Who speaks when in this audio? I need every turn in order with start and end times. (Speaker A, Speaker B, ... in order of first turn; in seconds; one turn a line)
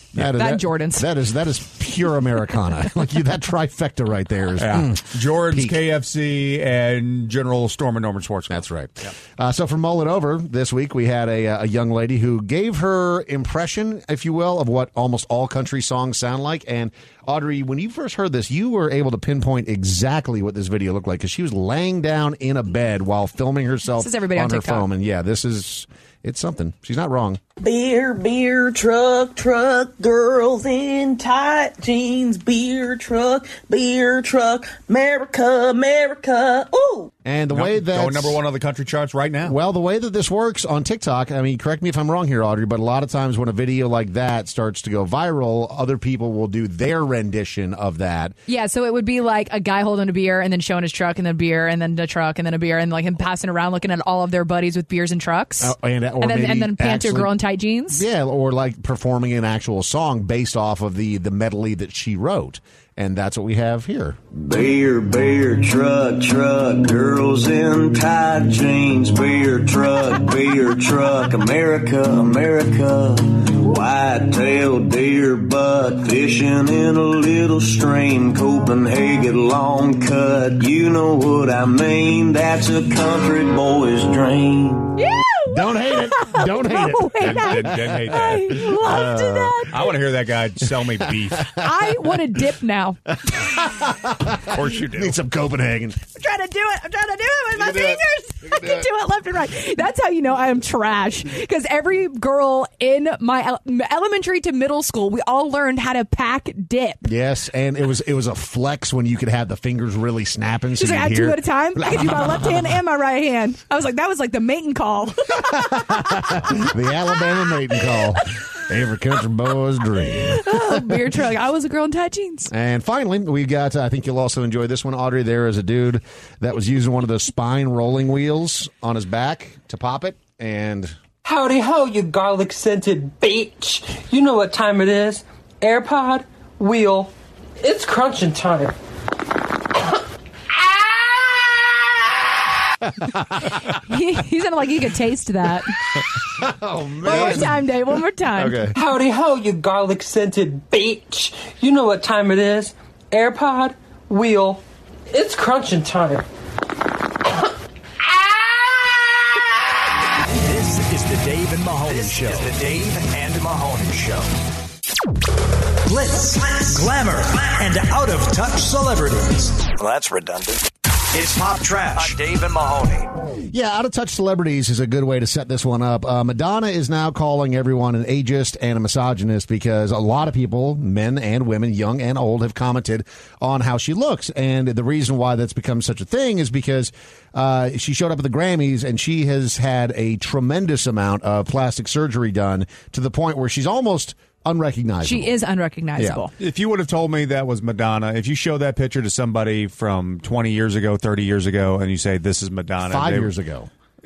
Speaker A: 0.1-5.8
Speaker B: 0.2-1.1
Speaker C: 4.6-8.6
Speaker A: 8.5-27.4
Speaker B: 23.9-24.9
Speaker D: 27.6-37.1
Speaker A: 37.2-38.4
Speaker C: 37.5-39.6
Speaker A: 39.4-48.4
Speaker B: 48.5-58.0
Speaker A: 55.6-57.3
Speaker A: 57.9-64.2
Speaker E: 64.3-84.9
Speaker B: 85.0-89.9
Speaker A: 85.5-89.7
Speaker C: 87.2-88.6
Speaker C: 89.7-91.6
Speaker B: 91.6-93.0
Speaker A: 93.3-96.0
Speaker C: 94.5-95.2
Speaker B: 96.1-107.0
Speaker A: 97.5-98.9
Speaker A: 107.0-112.7
Speaker B: 110.8-116.4
Speaker A: 115.6-121.0
Speaker B: 120.3-122.5
Speaker A: 122.5-130.9
Speaker F: 131.2-138.7
Speaker B: 143.8-145.7
Speaker A: 146.3-147.6
Speaker B: 147.0-148.7
Speaker A: 148.3-148.8
Speaker F: 148.7-156.2
Speaker G: 160.3-164.3
Speaker G: 165.8-173.1
Speaker A: 173.5-195.3
Speaker B: 195.0-196.3
Speaker C: 196.4-203.3
Speaker A: 202.8-203.7